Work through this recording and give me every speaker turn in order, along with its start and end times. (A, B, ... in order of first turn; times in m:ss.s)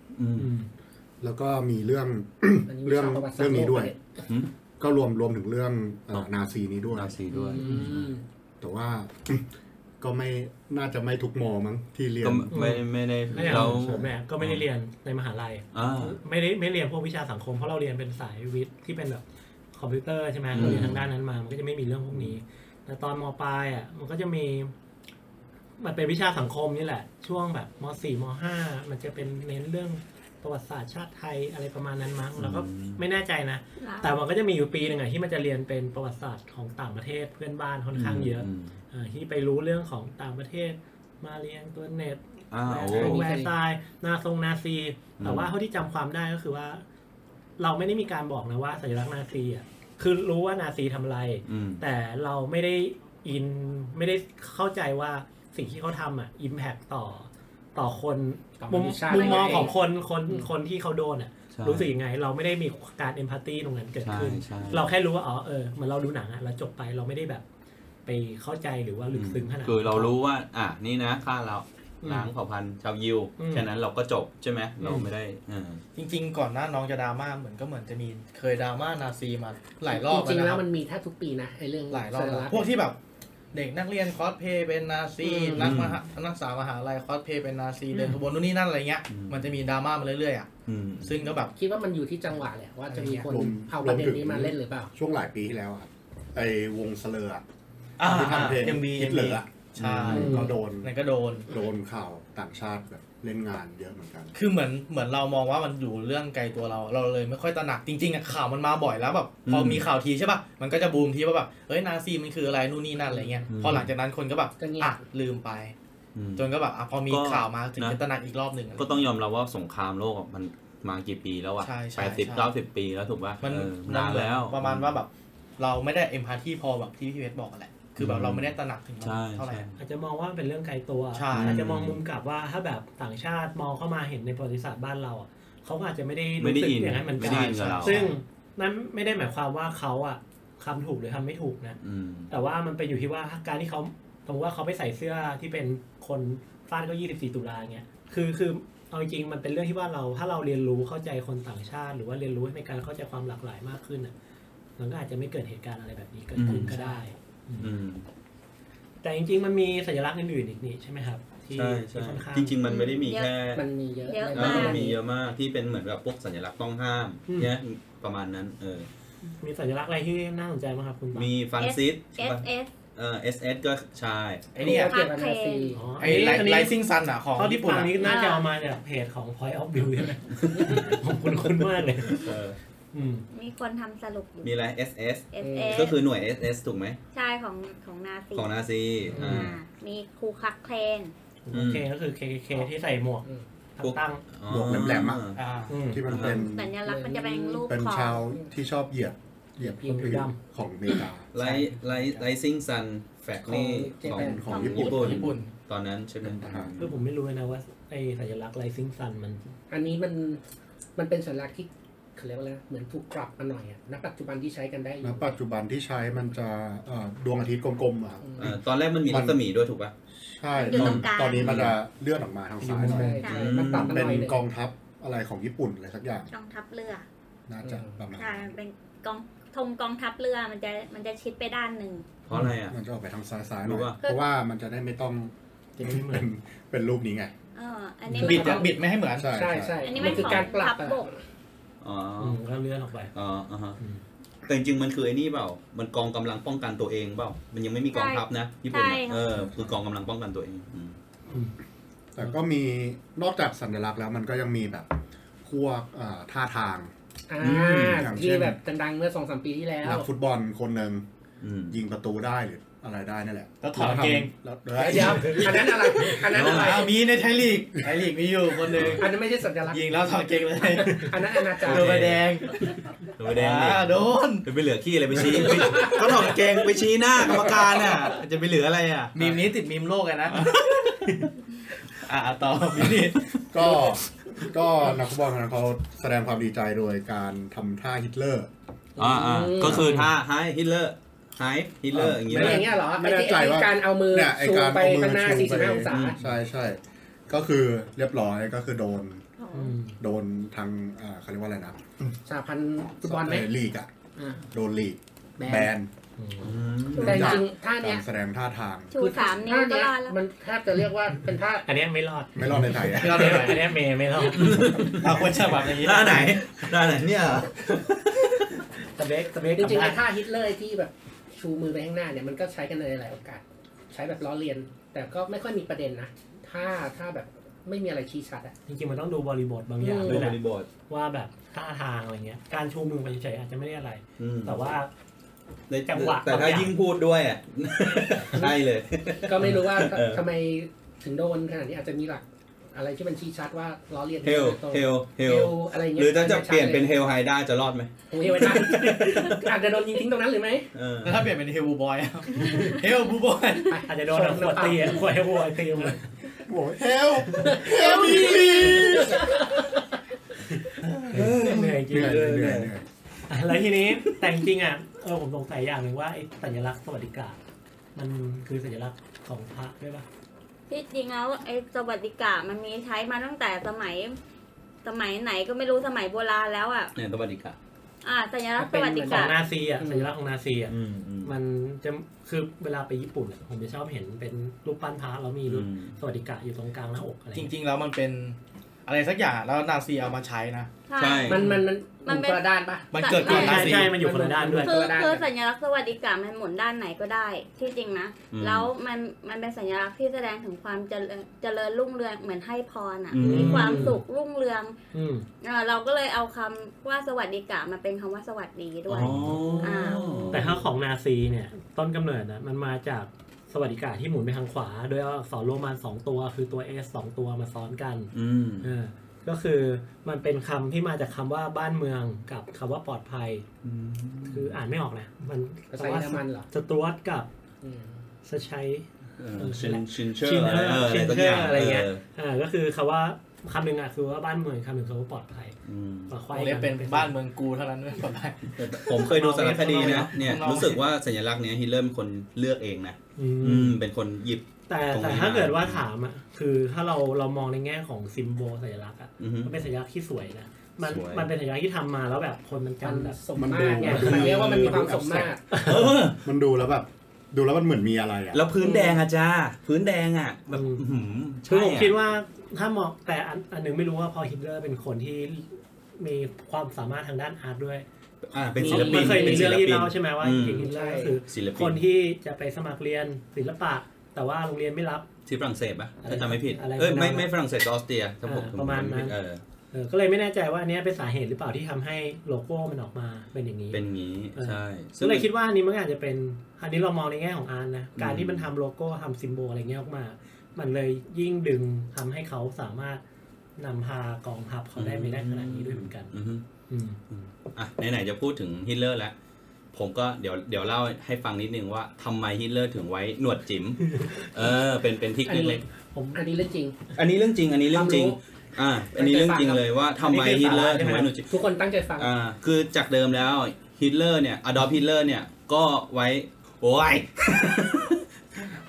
0:00.2-0:00.5 A
0:00.4-0:00.7 B
0:01.2-0:03.9 C
0:02.7-0:04.0 D
0:04.2-0:04.5 A
0:04.8-0:07.2 C
0:06.9-0:08.1 A
0:07.3-0:08.2 D
0:07.6-0:07.9 B
0:08.6-0:09.5 C
0:10.0-0:12.6 C
0:12.2-0:14.6 A
0:12.5-0:24.7 B
0:13.4-0:14.1 C
0:15.7-0:16.2 A
0:20.5-0:21.1 A
0:25.8-0:46.8 B
0:32.4-0:33.0 A
0:33.8-0:34.2 E
0:37.9-0:38.8 A
0:42.5-0:43.2 A
0:42.9-0:43.6 D
0:45.2-0:45.5 A
0:47.6-1:07.4 B
0:51.5-0:51.8 A
0:58.6-0:59.8 D
1:01.5-1:01.9 A
1:04.0-1:04.9 A
1:08.1-1:10.1 B
1:09.1-1:15.8 A
1:12.0-1:12.3 B
1:13.4-1:13.7 B
1:14.8-1:15.1 B
1:16.0-1:20.6 F
1:19.9-1:22.7 D
1:21.9-1:23.0 F
1:23.5-1:30.5 F
1:25.2-1:25.8 D
1:25.6-1:26.0 A
1:29.1-1:29.6 A
1:30.7-1:31.2 A
1:31.0-1:31.5 F
1:31.6-1:34.9 D
1:33.3-1:37.4 C
1:38.0-1:41.5 F
1:38.0-1:40.9 C
1:39.8-1:40.1 A
1:40.1-1:40.5 D
1:41.5-1:44.4 C
1:44.4-1:55.8 F
1:49.5-1:49.9 A
1:53.1-1:53.5 D
1:53.5-1:53.9 A
1:54.6-1:55.0 D
1:56.2-1:56.5 A
1:56.4-1:59.0 F
1:57.1-1:58.0 A
1:58.8-2:05.0 A
2:01.6-2:02.5 F
2:03.4-2:09.8 F
2:08.0-2:09.8 A
2:09.8-2:21.8 B
2:11.2-2:11.6 F
2:11.3-2:12.0 A
2:16.4-2:18.0 A
2:17.2-2:18.1 F
2:21.8-2:22.3 A
2:22.3-2:34.1 B
2:34.8-2:37.7 B
2:36.4-2:37.0 A
2:37.6-2:38.1 A
2:39.0-2:42.6 B
2:41.6-2:43.6 A
2:42.6-2:43.4 E
2:43.5-2:45.0 D
2:44.1-2:44.9 E
2:44.3-2:48.9 A
2:47.3-2:47.6 B
2:49.4-2:51.3 B
2:51.1-2:52.4 A
2:51.6-2:52.7 E
2:53.0-2:54.6 A
2:54.6-2:55.0 F
2:54.6-2:56.2 D
2:54.7-2:55.8 E
2:55.7-2:56.8 B
2:56.0-2:58.1 F
2:56.1-2:56.4 A
2:57.4-3:02.3 B
2:58.0-2:58.5 E
3:00.4-3:00.9 A
3:02.0-3:02.6 A
3:02.9-3:03.2 B
3:03.3-3:04.5 E
3:04.4-3:07.0 A
3:05.3-3:06.0 E
3:05.4-3:05.9 D
3:07.1-3:08.5 E
3:08.4-3:09.6 A
3:09.1-3:09.5 B
3:09.1-3:11.1 E
3:09.1-3:09.4 D
3:11.5-3:14.2 B
3:11.5-3:11.9 A
3:13.8-3:15.4 A
3:14.5-3:16.8 C
3:15.4-3:15.8 F
3:15.7-3:16.1 B
3:16.1-3:16.4 A
3:16.2-3:18.5 D
3:16.4-3:18.3 E
3:17.7-3:21.3 C
3:19.6-3:20.3 D
3:19.7-3:20.4 B
3:21.3-3:27.0 A
3:21.4-3:22.3 F
3:23.5-3:25.3 D
3:24.1-3:25.3 C
3:24.5-3:25.1 E
3:24.8-3:25.5 F
3:26.2-3:26.7 C
3:26.8-3:29.5 B
3:29.7-3:30.4 D
3:31.0-3:35.3 D
3:35.0-3:38.6 C
3:38.2-3:38.5 D
3:38.4-3:39.9 A
3:39.1-3:39.4 C
3:40.3-3:46.3 C
3:40.5-3:41.6 E
3:40.8-3:41.8 A
3:42.6-3:43.3 B
3:42.8-3:44.4 D
3:43.2-3:43.6 E
3:43.3-3:44.3 A
3:46.3-3:47.0 E
3:47.5-3:48.6 C
3:47.6-3:48.0 D
3:48.2-3:52.1 E
3:52.3-3:52.8 A
3:52.7-3:57.3 C
3:53.6-3:54.0 A
3:55.8-3:56.3 B
3:57.6-3:58.7 E
3:58.2-4:01.2 D
3:58.2-3:59.4 F
3:59.2-4:00.5 C
3:59.8-4:01.1 E
4:01.8-4:02.4 A
4:02.2-4:03.1 B
4:03.1-4:03.8 A
4:03.8-4:04.0 B
4:04.5-4:11.0 A
4:07.9-4:09.2 E
4:12.1-4:14.9 C
4:15.4-4:16.9 C
4:17.3-4:20.1 D
4:17.4-4:18.1 A
4:17.5-4:18.6 C
4:19.8-4:21.1 C
4:21.4-4:21.8 A
4:21.7-4:26.0 C
4:23.6-4:24.3 F
4:23.8-4:24.2 B
4:24.8-4:27.0 D
4:26.0-4:26.9 A
4:26.4-4:32.7 F
4:28.7-4:29.1 A
4:29.0-4:29.9 D
4:30.6-4:32.1 D
4:31.6-4:32.3 A
4:33.2-4:39.4 A
4:33.3-4:34.4 F
4:39.2-4:40.8 F
4:41.0-4:41.3 B
4:41.9-4:43.9 F
4:43.5-4:48.5 C
4:49.0-4:49.9 D
4:49.0-4:52.7 A
4:49.6-4:50.1 B
4:51.9-4:59.2 C
4:52.3-4:56.2 D
4:55.9-4:56.2 A
4:59.4-4:59.7 E
4:59.5-5:00.0 B
5:00.0-5:02.2 C
5:02.3-5:03.5 D
5:03.0-5:03.9 C
5:04.2-5:04.4 D
5:04.5-5:05.9 C
5:05.4-5:05.7 D
5:06.2-5:06.6 B
5:06.4-5:07.4 A
5:07.0-5:08.9 C
5:07.0-5:08.0 D
5:07.1-5:07.4 E
5:08.9-5:10.2 E
5:09.0-5:11.7 D
5:11.7-5:14.8 B
5:12.4-5:13.5 C
5:12.9-5:13.7 F
5:14.3-5:18.4 A
5:14.8-5:16.4 F
5:19.0-5:20.0 B
5:19.5-5:28.6 D
5:28.7-5:34.9 B
5:29.8-5:30.3 D
5:30.0-5:30.7 A
5:34.2-5:34.6 A
5:35.7-5:40.2 A
5:35.9-5:36.8 B
5:38.0-5:38.5 B
5:39.2-5:46.9 D
5:44.2-5:49.4 A
5:48.1-5:50.7 D
5:48.7-5:49.3 B
5:50.7-5:51.3 A
5:51.0-5:53.8 F
5:53.7-5:55.1 D
5:53.9-5:56.0 B
5:56.4-5:59.5 C
5:57.4-5:59.0 D
5:58.6-5:59.1 A
5:58.9-5:59.6 B
6:00.9-6:02.7 A
6:01.1-6:02.7 B
6:01.2-6:02.8 C
6:03.3-6:07.4 B
6:08.0-6:10.1 B
6:10.7-6:14.2 E
6:14.8-6:16.9 E
6:17.0-6:17.6 A
6:18.0-6:19.4 E
6:18.6-6:20.1 D
6:19.0-6:27.5 B
6:20.7-6:21.3 A
6:25.5-6:26.0 A
6:27.4-6:30.7 F
6:30.9-6:33.7 E
6:31.0-6:31.5 A
6:31.2-6:35.3 D
6:32.9-6:33.9 F
6:33.1-6:34.8 B
6:34.6-6:44.8 E
6:38.3-6:38.7 A
6:43.1-6:44.0 A
6:43.2-6:44.0 B
6:44.9-6:45.3 B
6:45.4-6:50.5 E
6:48.9-6:50.6 A
6:48.9-6:49.8 B
6:50.3-7:03.4 B
6:58.1-6:58.7 A
7:03.6-7:04.5 A
7:04.2-7:07.3 B
7:05.7-7:06.5 D
7:07.6-7:08.1 D
7:08.2-7:15.6 B
7:09.2-7:12.0 A
7:15.7-7:16.2 A
7:16.1-7:17.2 B
7:16.3-7:20.8 F
7:18.6-7:25.8 A
7:19.1-7:20.4 B
7:23.2-7:23.8 B
7:24.7-7:33.2 B
7:29.2-7:29.5 A
7:30.8-7:31.3 A
7:32.8-7:35.6 D
7:33.4-7:35.4 C
7:33.8-7:34.3 B
7:34.2-7:34.8 A
7:35.5-7:35.9 B
7:35.6-7:36.2 A
7:36.0-7:38.4 C
7:38.3-7:42.0 A
7:40.5-7:40.8 B
7:41.5-7:47.8 B
7:48.3-7:50.7 A
7:48.6-7:49.6 D
7:48.6-7:55.1 B
7:50.4-7:51.2 D
7:51.3-7:51.8 A
7:55.3-7:59.4 A
7:56.0-7:57.3 B
7:58.2-7:59.2 B
7:59.7-8:03.8 B
8:03.7-8:05.3 A
8:04.4-8:13.0 B
8:08.0-8:08.5 A
8:13.6-8:16.1 B
8:14.8-8:16.4 A
8:16.7-8:17.0 B
8:17.1-8:19.1 A
8:19.7-8:25.6 A
8:23.9-8:24.3 B
8:25.2-8:25.6 D
8:25.9-8:26.2 B
8:26.1-8:26.8 D
8:26.9-8:31.3 A
8:27.7-8:28.2 D
8:28.9-8:29.7 D
8:30.0-8:31.1 B
8:31.2-8:32.1 D
8:32.0-8:38.0 A